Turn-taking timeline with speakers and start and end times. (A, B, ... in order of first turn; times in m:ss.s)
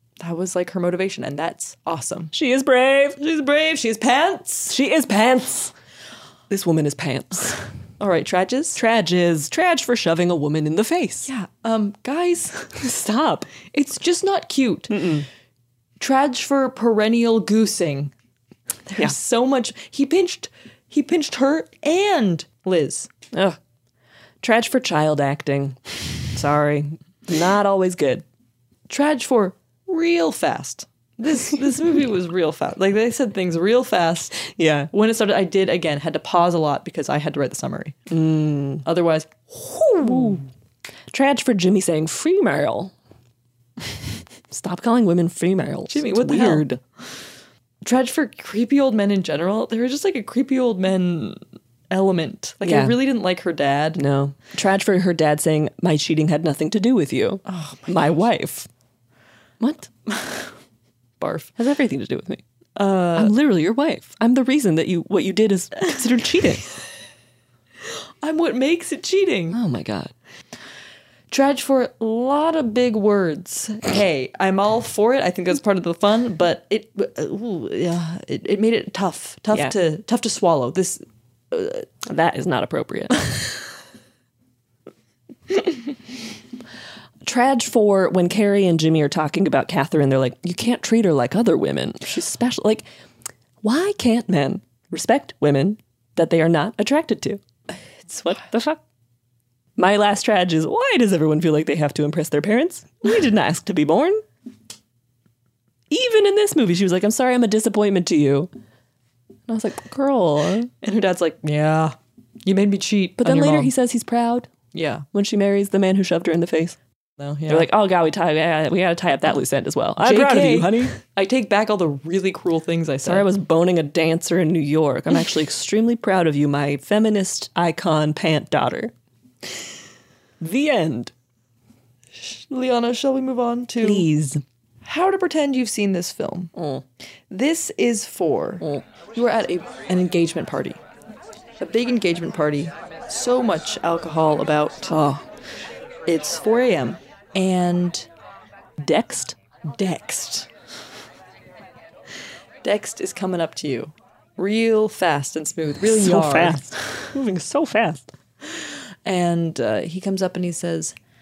0:00.2-0:02.3 A
0:02.3-0:03.2 B
0:03.2-0:04.8 A
0:04.7-0:05.7 B
0:06.5-0:07.6 B
0:08.0-0:08.8 A
0:08.8-0:11.3 B
0:11.3-0:12.7 A
0:12.8-0:13.5 B
0:13.7-0:15.0 A
0:14.9-0:15.3 B
0:16.0-0:18.1 A
0:18.9-0:23.1 A
0:23.3-0:23.6 B
0:24.4-0:28.2 B
0:28.9-0:38.0 A
0:34.4-0:34.9 B
0:38.1-0:38.8 B
0:38.8-0:40.4 A
0:40.0-0:40.4 B
0:41.1-0:42.9 B
0:44.5-0:46.8 B
0:45.9-0:46.7 A
0:47.8-0:54.0 A
0:52.6-0:53.0 B
0:54.0-0:58.7 B
0:57.5-0:58.1 A
0:59.6-0:59.9 B
1:00.1-1:00.5 A
1:01.2-1:01.5 A
1:01.6-1:02.4 B
1:02.8-1:03.3 A
1:03.2-1:06.6 B
1:08.2-1:09.6 A
1:09.5-1:10.1 B
1:11.3-1:21.9 A
1:22.0-1:23.2 B
1:27.2-1:32.9 B
1:33.6-1:37.4 B
1:38.0-1:38.4 A
1:38.3-1:38.8 B
1:39.8-1:44.2 B
1:45.9-1:48.5 B
1:49.5-1:50.7 B
1:50.8-1:53.7 A
1:53.2-1:54.5 B
1:54.7-1:55.0 A
1:55.1-1:56.8 B
1:57.2-1:57.7 A
1:57.5-2:01.0 B
2:00.0-2:03.3 A
2:03.0-2:08.9 B
2:10.4-2:11.1 B
2:12.2-2:14.1 A
2:13.8-2:14.4 B
2:14.8-2:16.5 A
2:16.6-2:16.8 B
2:17.3-2:20.8 A
2:21.6-2:24.9 A
2:24.9-2:25.2 B
2:26.1-2:28.1 A
2:28.8-2:29.4 B
2:29.7-2:30.5 A
2:32.6-2:36.7 A
2:35.9-2:38.1 B
2:39.0-2:41.0 A